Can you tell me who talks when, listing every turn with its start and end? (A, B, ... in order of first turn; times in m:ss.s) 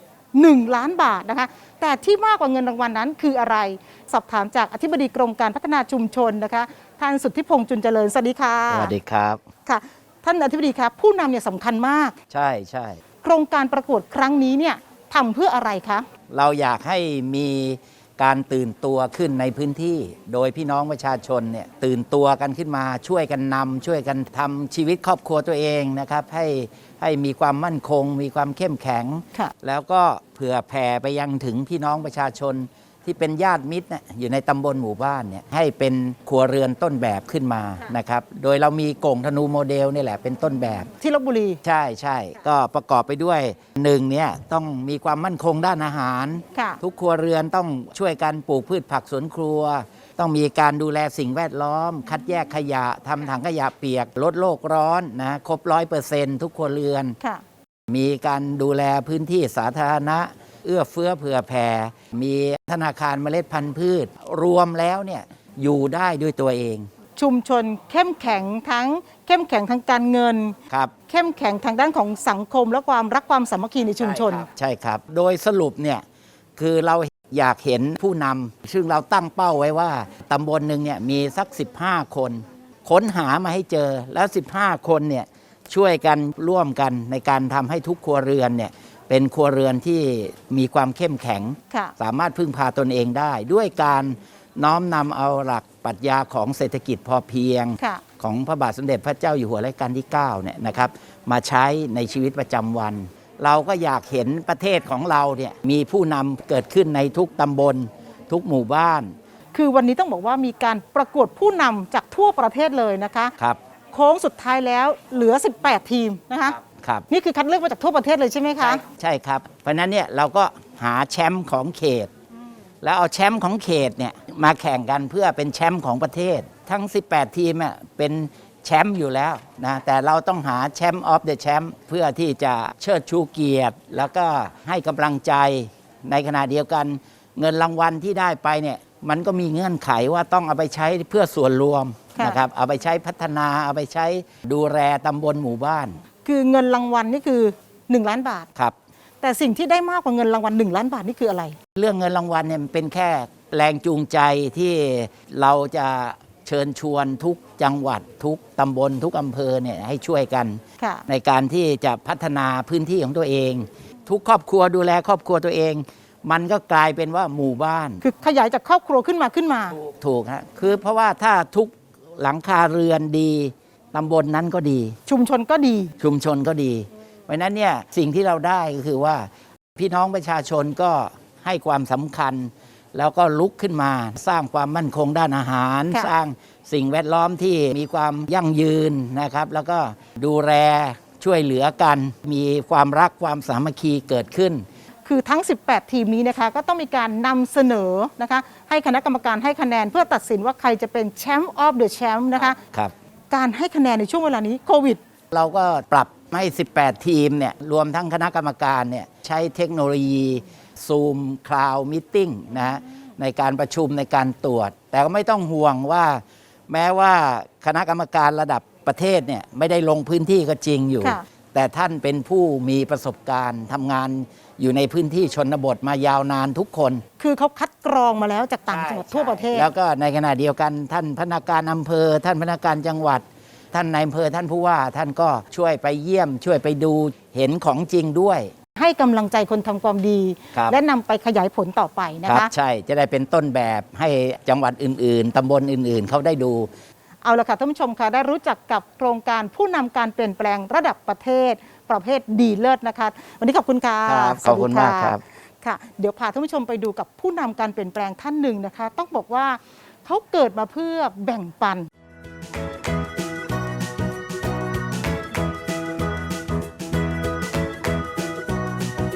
0:00.3-0:08.9 A
0:08.7-0:09.4 B
0:09.7-0:12.2 A
0:12.3-0:13.0 B
0:13.2-0:16.1 A
0:16.3-0:40.9 B
0:41.0-0:41.6 A
0:41.6-0:57.2 B
0:57.9-1:06.9 B
1:07.2-1:10.6 A
1:11.1-1:14.5 A
1:14.0-1:16.0 B
1:16.6-1:49.2 B
1:49.5-1:53.3 A
1:53.9-1:56.6 A
1:56.5-1:57.1 B
1:57.1-1:58.8 A
1:58.6-2:02.1 B
2:02.8-2:26.0 B
2:26.2-2:28.5 A
2:29.2-2:31.6 A
2:31.8-2:48.0 B
2:40.8-2:41.0 A
2:48.0-2:49.8 A
2:49.8-2:55.0 B
2:55.1-2:55.9 A
2:56.0-3:14.6 B
3:15.1-3:22.6 A
3:22.6-3:22.9 B
3:23.3-3:25.0 A
3:25.3-3:47.0 B
3:47.2-3:49.7 A
3:48.7-3:58.5 B
3:58.8-4:02.5 A
4:02.2-4:06.7 B
4:07.2-4:21.9 A
4:14.0-4:15.2 B